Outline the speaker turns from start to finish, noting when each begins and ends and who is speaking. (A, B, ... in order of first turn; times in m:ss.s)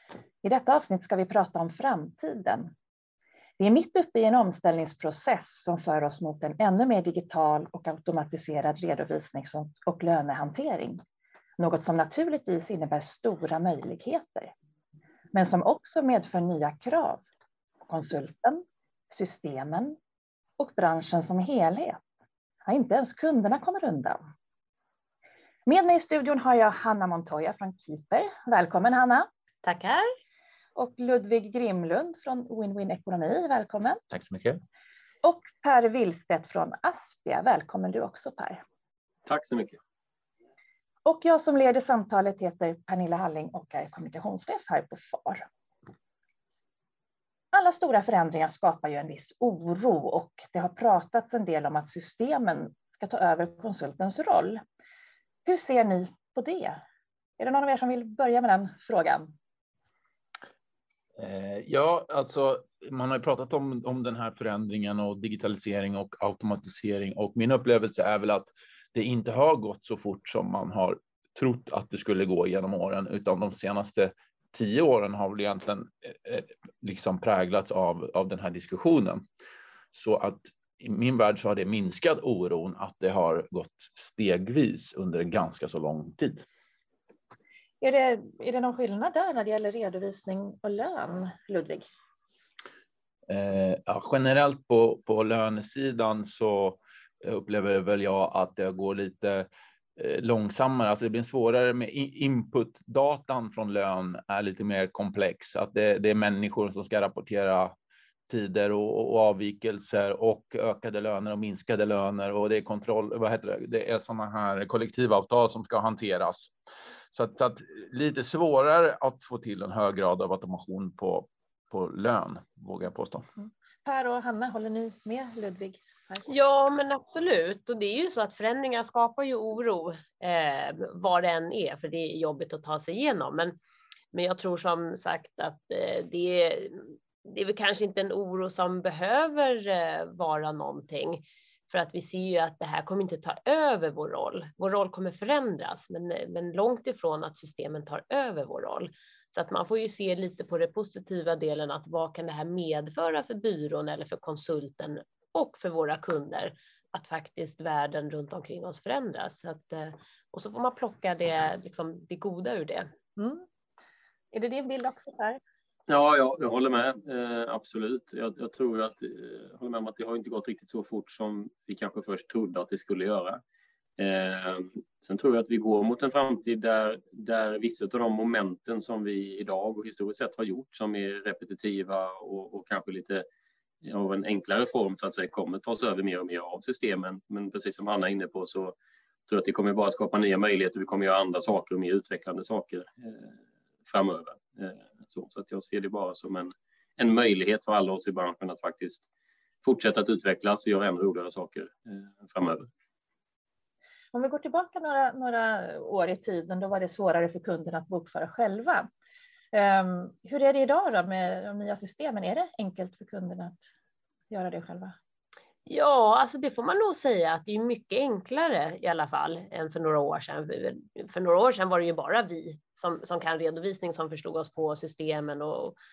0:00.4-0:02.7 A
0:03.6-0:11.0 A
0:11.6-0:14.5 A
0:15.3-0:17.2 A
0:17.9-0:20.0 A
0:20.6-0:22.0 A
0:22.7-0:24.2 A
0:25.7-0:29.3 A
0:29.6-0:30.1 B
0:30.8-0:34.0 A
0:34.1-0:34.6 C
0:35.2-0:38.6 A
0:39.3-0:39.8 D
0:41.0-0:45.5 A
0:47.5-0:54.6 A
0:55.4-0:56.8 A
0:57.4-0:59.3 A
1:01.2-1:19.2 C
1:19.9-1:26.4 C
1:27.8-1:31.8 A
1:33.3-1:47.7 C
1:48.3-1:56.5 C
1:57.1-2:03.3 C
2:03.4-2:06.2 A
2:06.2-2:13.6 B
2:14.1-2:42.9 B
2:43.2-2:43.4 A
2:44.3-2:45.4 A
2:45.9-2:53.4 D
2:54.0-3:03.3 D
3:03.8-3:08.8 D
3:09.3-3:13.3 D
3:13.9-3:19.1 D
3:19.6-3:22.7 D
3:24.1-3:28.9 A
3:29.5-3:33.6 A
3:34.3-3:35.0 A
3:35.7-3:45.8 B